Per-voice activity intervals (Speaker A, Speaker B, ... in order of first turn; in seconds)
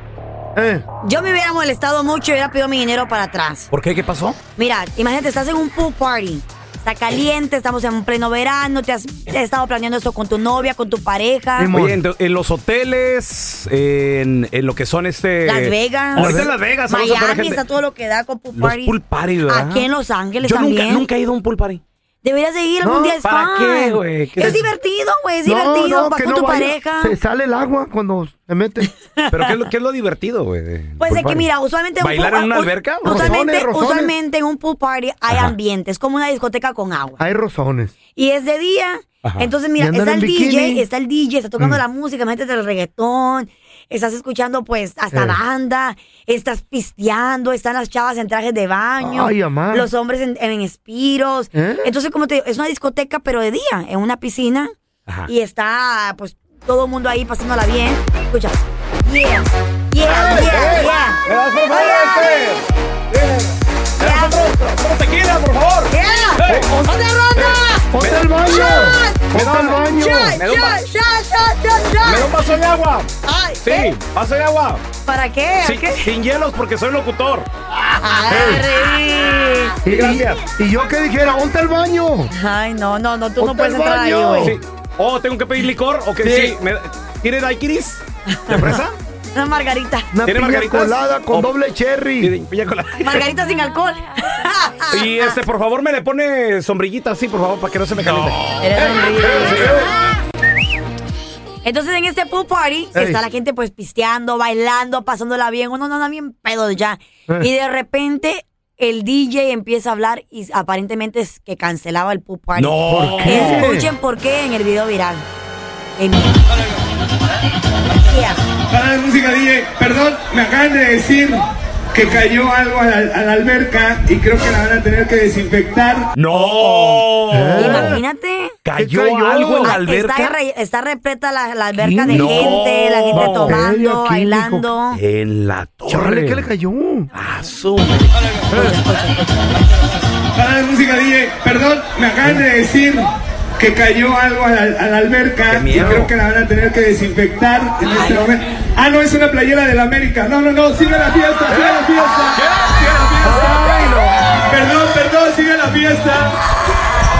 Speaker A: 0.6-0.8, 11.6-12.0, 16.2-16.5, 22.8-23.2, 24.4-24.7, 25.4-28.9, 31.1-31.5, 33.0-34.1, 37.2-37.9, 39.8-40.9, 45.1-45.4, 49.0-49.9, 51.5-51.9, 66.4-70.4, 78.3-78.7, 79.8-82.3, 83.4-84.6, 90.1-92.3, 103.0-103.2, 112.9-113.9, 126.4-128.0, 128.8-129.8, 131.8-134.7, 135.9-137.1, 138.5-138.8, 153.2-154.0
Speaker B: 1.0-3.7, 4.6-11.7, 15.4-21.1, 22.2-27.2, 28.8-29.7, 31.0-37.2, 38.1-54.7, 55.3-62.5, 64.0-64.5, 65.9-67.9, 68.4-72.3, 73.2-73.9, 75.1-76.1, 78.0-79.8, 82.3-84.6, 86.3-86.5, 88.3-88.8, 89.3-90.1, 93.0-95.4, 98.6-99.8, 101.6-115.3, 116.0-116.4, 117.9-118.4, 127.6-128.6, 129.6-135.0, 138.5-140.0
Speaker C: 3.7-4.4, 11.7-17.6, 18.5-19.9, 20.4-21.8, 23.2-24.6, 29.3-31.1, 32.0-33.4, 35.3-35.5, 39.2-39.5, 60.0-66.7, 67.4-68.3, 69.3-70.8, 72.0-74.8, 75.6-77.5, 79.9-80.4, 84.4-89.0, 90.2-91.5, 92.2-93.3, 94.9-99.9, 112.5-113.7, 126.1-128.0, 128.7-130.4, 132.1-133.7, 134.9-136.5, 137.1-138.2, 145.5-146.2, 151.5-154.1
Speaker D: 118.7-126.1, 140.3-152.4, 154.3-156.4